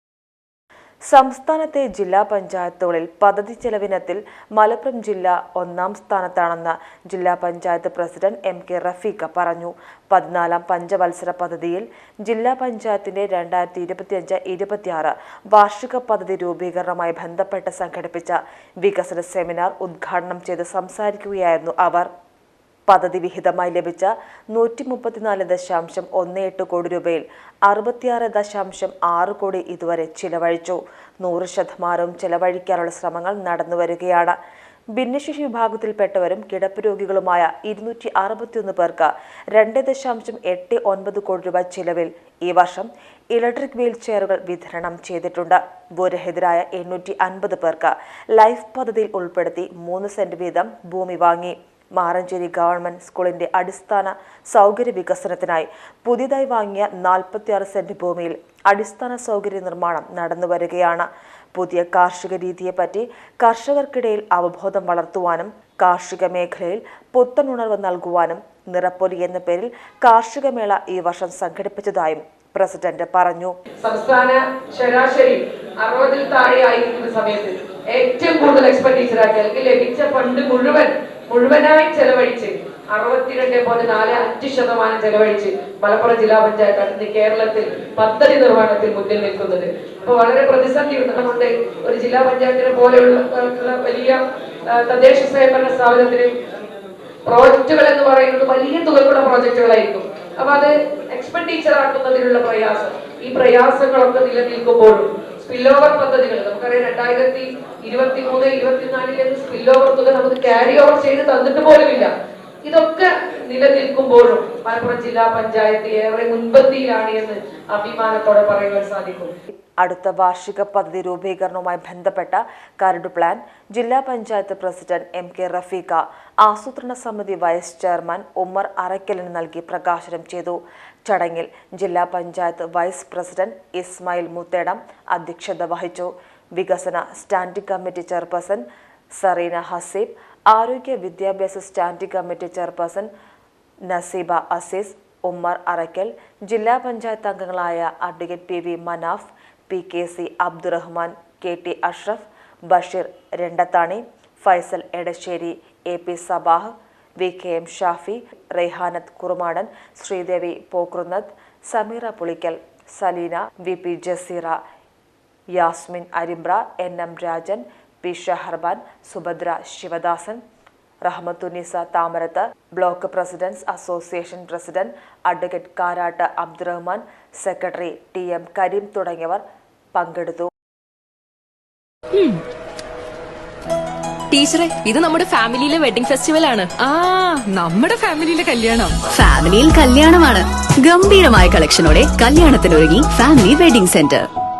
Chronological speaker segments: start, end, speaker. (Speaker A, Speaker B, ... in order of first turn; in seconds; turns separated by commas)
Speaker A: 1.1-22.1, Speaker A: 22.9-34.3, Speaker A: 35.0-73.5, Speaker B: 73.8-96.3, Speaker B: 97.3-112.1, Speaker B: 112.6-119.3, Speaker A: 119.8-138.6, Speaker A: 139.2-143.1, Speaker A: 143.9-164.6, Speaker A: 165.5-170.4, Speaker A: 171.0-179.4, Speaker A: 179.9-180.5, Speaker C: 182.1-182.4, Speaker D: 184.3-185.9, Speaker C: 184.3-186.7, Speaker D: 186.7-189.0, Speaker E: 189.1-194.3